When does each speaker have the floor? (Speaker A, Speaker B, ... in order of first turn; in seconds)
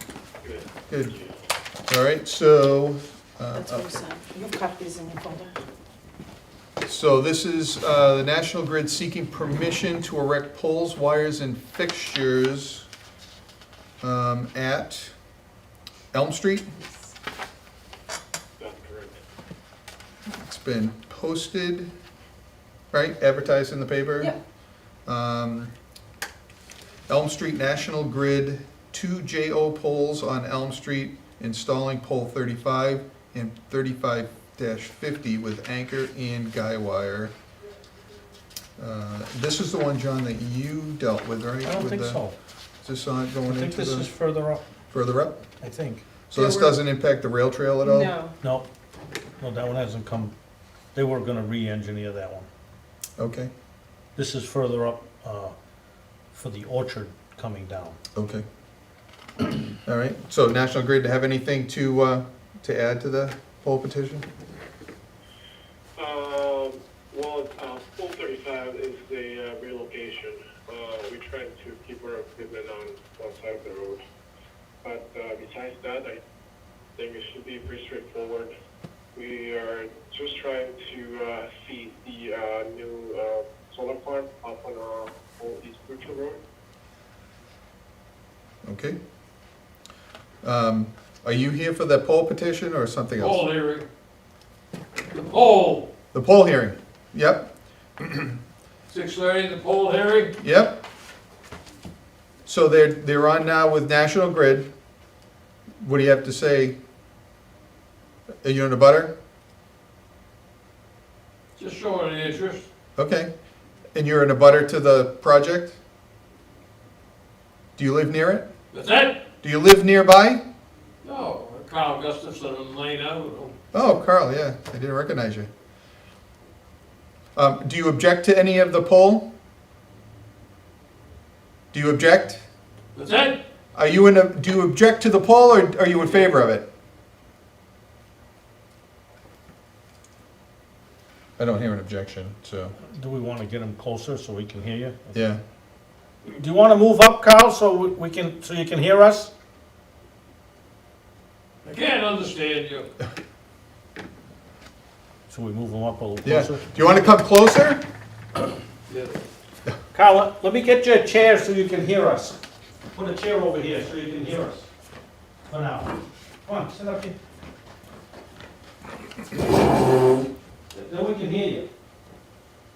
Speaker A: 0.4-0.7, 18.6-19.2, 66.0-74.0, 74.8-76.2, 77.0-78.5, 79.2-86.4
Speaker B: 0.9-1.2, 1.9-3.9, 6.8-12.9, 14.0-15.1, 16.1-16.7, 20.3-21.9, 22.9-24.4, 25.1-25.7, 27.1-37.3, 38.8-42.2, 42.8-44.1, 44.9-45.4, 46.3-48.1, 53.2-53.5, 58.1-58.5, 59.8-64.3, 88.7-89.0, 90.4-93.4, 96.1-98.3, 100.4-100.8, 102.5-104.7, 105.8-106.8, 108.4-109.1, 113.0-113.3, 114.0-115.8, 117.8-118.5, 119.4-120.4, 123.7-125.5, 127.3-129.3, 131.7-132.4, 133.8-136.7, 141.4-142.8, 145.1-145.4, 156.2-157.8
Speaker C: 3.7-5.6, 46.3-46.8, 47.8-48.4
Speaker D: 41.6-42.4, 43.5-44.6, 45.6-46.0, 48.4-48.7, 49.4-50.3, 50.9-52.5, 54.2-55.5, 56.3-58.0, 142.9-145.2, 146.3-149.3, 155.3-156.7, 159.9-162.4, 162.9-164.7, 165.5-167.2, 170.7-171.7
Speaker E: 93.2-93.9, 95.1-95.9, 98.9-100.3, 111.6-112.7, 118.7-119.2, 121.0-123.5, 132.9-133.4, 136.0-136.3, 151.6-152.9, 158.9-159.3